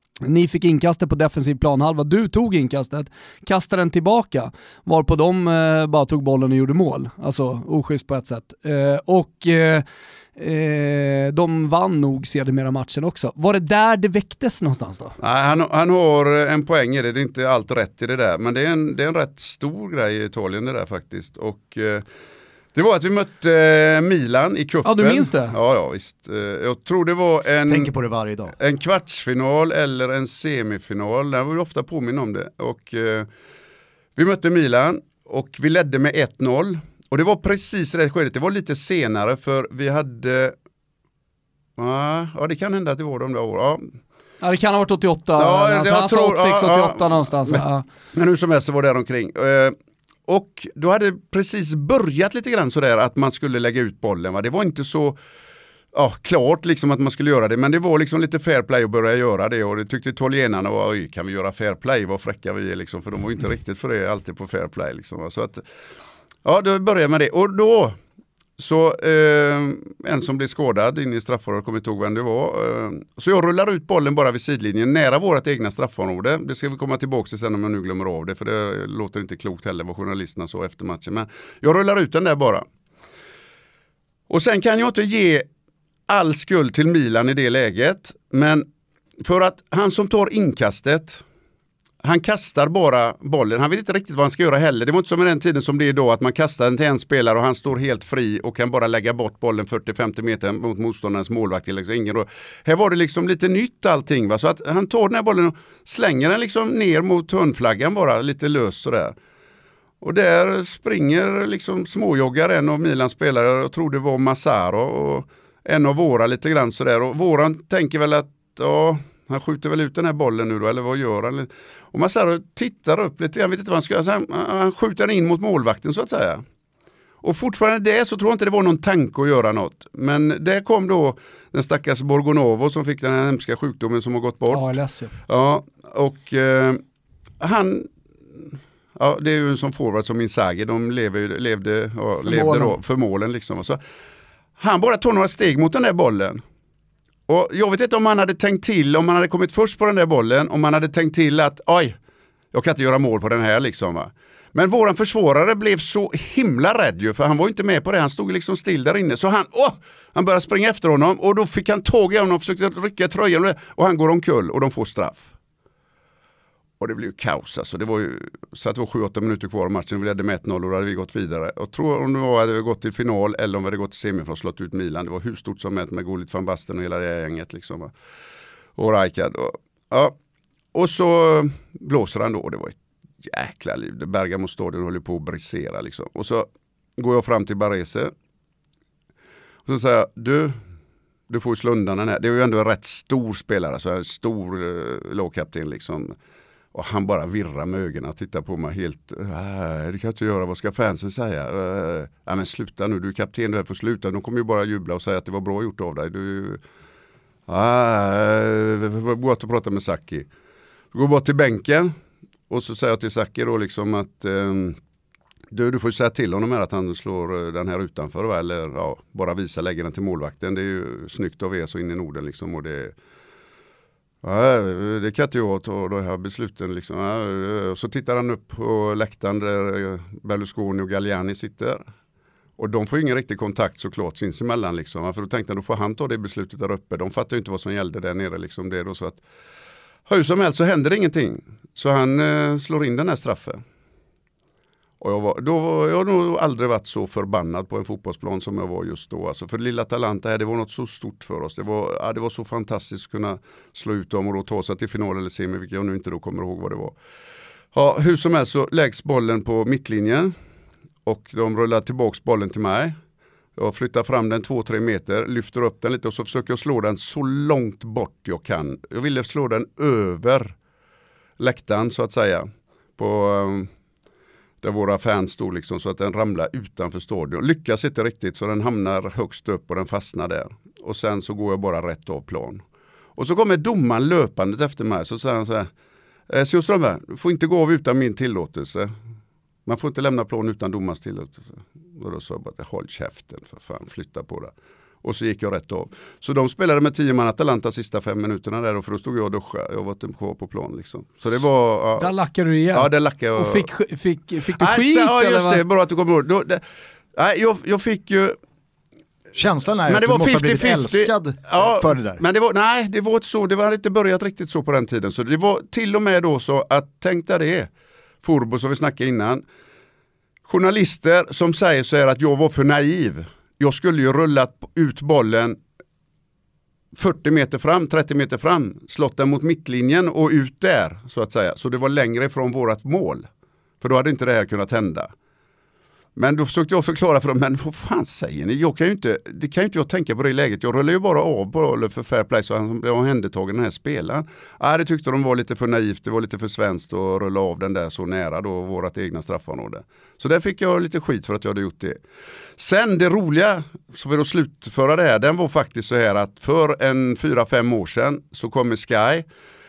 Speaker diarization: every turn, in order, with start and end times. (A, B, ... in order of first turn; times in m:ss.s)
0:00.2-0:09.8 A
0:10.4-0:15.2 A
0:15.2-0:22.0 B
0:22.7-0:27.9 B
0:24.8-0:25.6 A
0:27.7-0:28.6 C
0:28.6-0:33.3 B
0:34.2-0:40.6 B
0:41.8-0:43.9 B
0:44.4-0:47.8 A
0:45.4-0:49.7 B
0:50.3-0:55.2 B
0:55.9-1:05.6 B
1:06.4-1:08.0 B
1:08.6-1:22.7 B
1:24.3-1:25.5 B
1:26.1-1:28.7 B
1:29.2-1:31.2 B
1:32.0-1:49.1 B
1:50.0-2:06.4 B
2:07.2-2:14.8 B
2:14.5-2:15.1 A
2:15.3-2:16.8 B
2:17.4-2:23.8 B
2:22.2-2:22.8 A
2:24.6-2:26.4 B
2:27.3-2:32.0 B
2:32.5-2:45.3 B
2:46.8-2:57.9 B
2:58.8-3:00.2 B
3:00.7-3:08.1 B
3:09.6-3:10.6 B
3:11.3-3:16.1 B
3:16.7-3:26.6 B
3:27.5-3:30.3 B
3:30.9-3:31.9 B
3:32.5-3:34.8 B
3:35.5-3:42.9 B
3:44.2-3:51.8 B
3:52.6-3:59.2 B
4:00.1-4:03.6 B
4:05.0-4:17.0 B
4:17.7-4:20.3 B
4:21.0-4:23.0 B
4:23.6-4:30.6 B
4:31.4-4:33.7 B
4:34.6-4:42.6 B
4:43.2-4:45.7 B
4:46.3-4:48.9 B
4:49.6-5:02.1 B
5:02.0-5:05.6 A
5:02.7-5:03.7 B
5:04.6-5:06.6 B
5:07.1-5:08.4 B
5:09.4-5:12.2 C
5:09.9-5:17.7 B
5:18.2-5:19.4 B
5:20.4-5:25.6 B
5:26.9-5:33.3 B
5:33.8-5:35.1 B
5:36.2-5:52.0 B
5:52.6-5:59.3 B